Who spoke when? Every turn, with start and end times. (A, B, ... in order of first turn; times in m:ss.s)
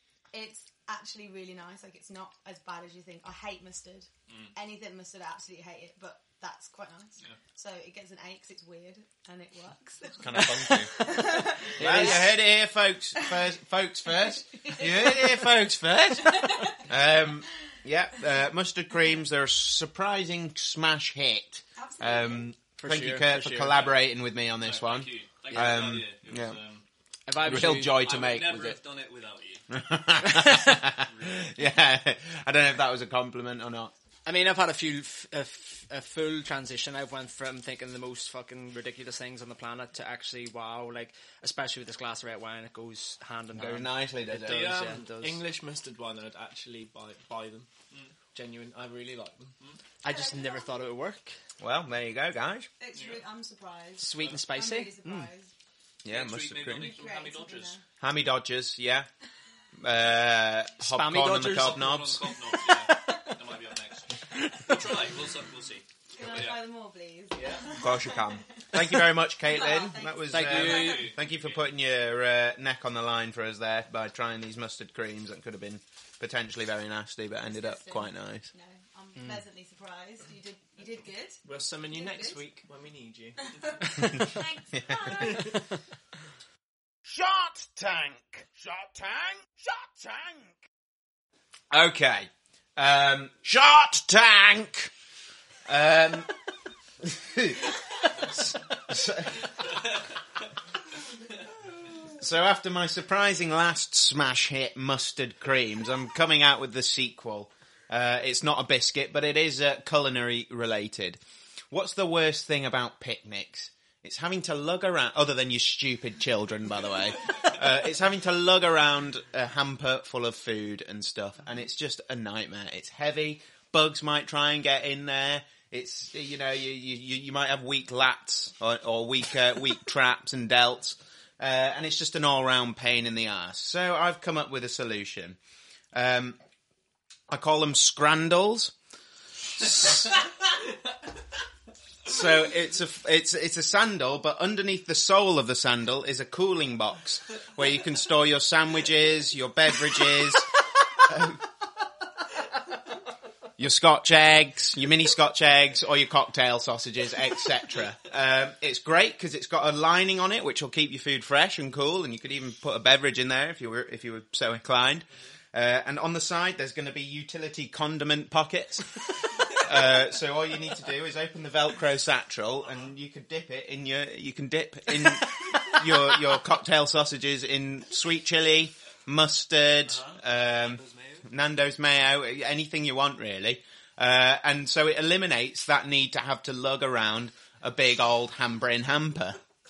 0:00.3-0:12.3 A
0:04.3-0:04.5 B
0:10.2-0:26.6 C
0:11.8-0:12.3 D
0:14.3-0:15.6 A
0:16.2-0:16.9 A
0:21.8-0:22.5 A
0:22.8-0:24.0 D
0:24.6-0:26.8 B
0:27.3-0:28.0 D
0:27.4-0:28.8 C
0:27.7-0:29.7 B
0:29.7-0:33.9 C
0:30.3-0:30.8 D
0:31.0-0:31.5 B
0:34.3-0:45.4 D
0:43.5-0:44.8 C
0:44.5-0:47.7 E
0:47.9-0:48.2 B
0:48.3-0:49.6 E
0:50.0-0:51.4 D
0:50.0-0:50.8 A
0:51.6-0:52.7 C
0:52.8-0:55.5 A
0:52.9-0:53.2 B
0:54.0-0:55.3 D
0:56.0-0:57.0 C
0:56.1-0:57.8 B
0:56.7-0:57.8 A
0:58.0-0:59.1 C
0:59.8-1:02.2 C
1:00.8-1:01.8 D
1:01.4-1:06.6 B
1:04.4-1:04.7 D
1:06.1-1:11.2 A
1:07.8-1:18.5 C
1:10.3-1:11.1 D
1:10.5-1:11.7 B
1:17.4-1:22.4 A
1:21.4-1:23.7 E
1:23.4-1:25.6 A
1:24.8-1:25.2 C
1:27.1-1:30.6 C
1:31.7-1:34.9 C
1:35.7-1:36.3 C
1:37.0-1:39.5 C
1:42.1-2:15.4 C
2:15.9-2:16.4 C
2:17.3-2:18.7 C
2:19.6-2:20.1 C
2:22.0-2:31.4 C
2:33.6-3:09.4 C
2:59.9-3:01.3 B